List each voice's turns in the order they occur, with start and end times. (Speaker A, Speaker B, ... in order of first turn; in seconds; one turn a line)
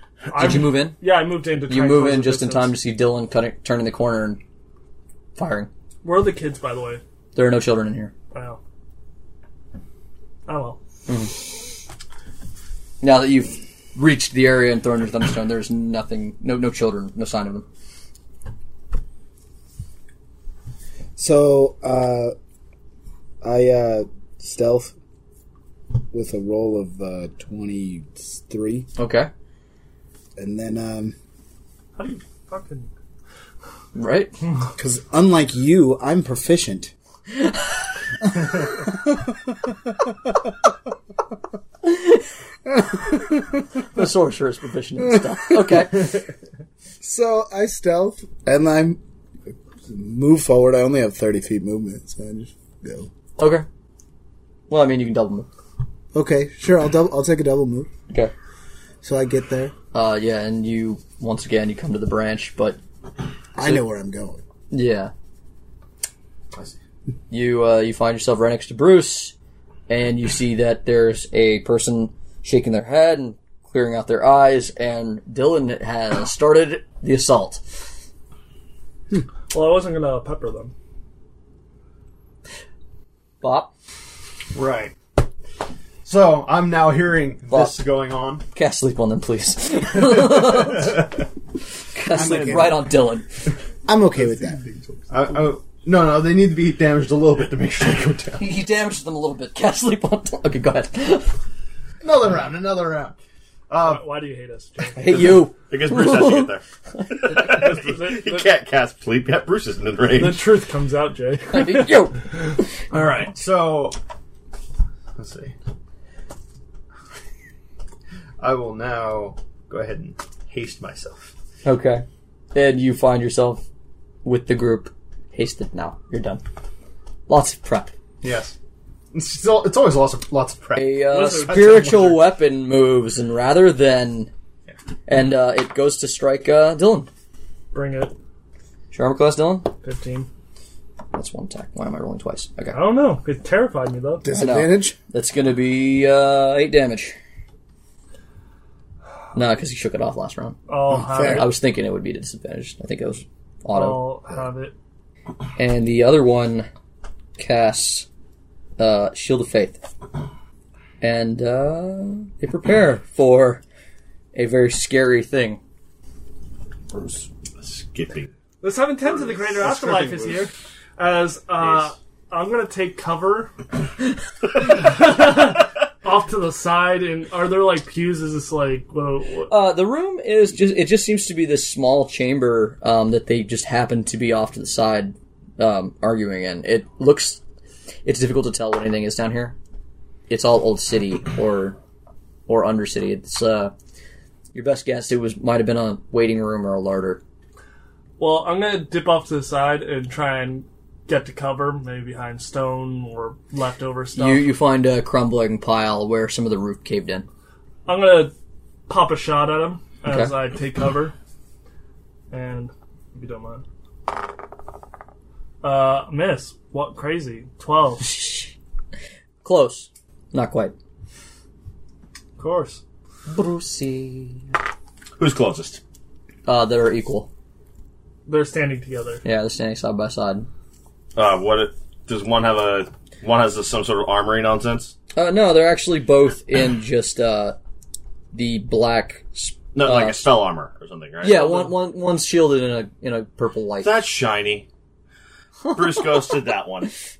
Speaker A: 0.3-2.7
Speaker B: 0.3-1.0
Speaker B: 1.7-4.4
Speaker B: 5.3-5.7
Speaker A: 6.0-7.0
Speaker B: 7.3-8.1
Speaker A: 8.3-8.6
Speaker A: 10.4-10.8
Speaker B: 11.1-11.5
Speaker B: 13.0-17.6
Speaker C: 21.1-22.3
Speaker C: 23.4-24.9
Speaker C: 26.1-28.9
Speaker B: 28.9-29.3
Speaker C: 30.4-31.1
Speaker A: 32.0-32.9
Speaker B: 33.9-34.4
Speaker C: 34.8-36.9
Speaker C: 38.4-40.1
Speaker C: 42.7-43.6
Speaker B: 43.8-46.2
Speaker C: 45.5-45.9
Speaker C: 47.0-49.0
Speaker C: 49.8-53.1
Speaker B: 53.4-53.6
Speaker B: 54.7-55.5
Speaker C: 56.1-57.9
Speaker C: 59.0-59.7
Speaker B: 59.9-62.8
Speaker C: 63.5-64.4
Speaker B: 64.7-65.1
Speaker B: 67.3-69.3
Speaker B: 69.9-77.6
Speaker A: 79.5-80.7
Speaker B: 83.4-83.7
Speaker D: 84.5-84.9
Speaker D: 86.0-88.4
Speaker B: 87.5-87.7
Speaker B: 88.5-91.1
Speaker B: 91.9-93.3
Speaker C: 92.0-92.9
Speaker C: 93.8-94.6
Speaker D: 95.1-98.5
Speaker B: 98.4-101.3
Speaker D: 102.0-103.2
Speaker D: 103.7-104.0
Speaker A: 103.8-105.0
Speaker B: 105.0-106.5
Speaker E: 105.1-110.5
Speaker A: 107.3-108.5
Speaker A: 110.1-112.2
Speaker B: 111.5-112.2
Speaker A: 112.9-113.2
Speaker D: 113.2-114.0
Speaker D: 115.2-115.5
Speaker D: 118.4-121.3
Speaker B: 121.6-123.6
Speaker B: 124.2-126.4
Speaker B: 127.3-127.9
Speaker D: 128.2-128.5
Speaker D: 129.1-132.2
Speaker B: 130.7-134.3
Speaker A: 131.1-132.1
Speaker B: 135.1-137.1
Speaker A: 137.7-138.1
Speaker B: 138.9-139.7
Speaker A: 139.8-140.3
Speaker B: 141.1-142.8
Speaker A: 142.7-144.3
Speaker C: 144.2-144.9
Speaker B: 144.3-147.2
Speaker B: 149.3-150.6
Speaker A: 150.7-151.5
Speaker C: 150.9-151.4
Speaker B: 151.1-154.1
Speaker A: 153.7-154.7
Speaker B: 155.6-156.7
Speaker B: 157.4-158.1
Speaker B: 158.8-159.8
Speaker B: 161.0-163.6
Speaker B: 164.3-165.6
Speaker E: 166.9-168.3
Speaker A: 168.6-173.5
Speaker D: 169.6-170.4
Speaker A: 174.5-179.5
Speaker B: 179.5-187.4
Speaker B: 188.0-189.6
Speaker B: 190.3-191.8
Speaker B: 192.5-193.7
Speaker B: 194.5-197.2
Speaker A: 198.2-204.5
Speaker B: 204.2-207.2
Speaker A: 207.8-208.3
Speaker A: 208.9-211.1
Speaker B: 210.1-210.3
Speaker A: 212.3-213.6
Speaker A: 215.6-218.1
Speaker B: 218.0-218.5
Speaker B: 219.4-220.7
Speaker A: 222.4-222.8
Speaker B: 223.3-224.4
Speaker E: 225.2-225.8
Speaker B: 226.4-227.3
Speaker A: 228.2-229.2
Speaker B: 229.2-230.5
Speaker E: 231.2-234.9
Speaker B: 235.1-237.6
Speaker B: 238.3-240.3
Speaker E: 239.7-241.7
Speaker B: 241.2-244.0
Speaker E: 243.8-244.7
Speaker E: 245.7-246.9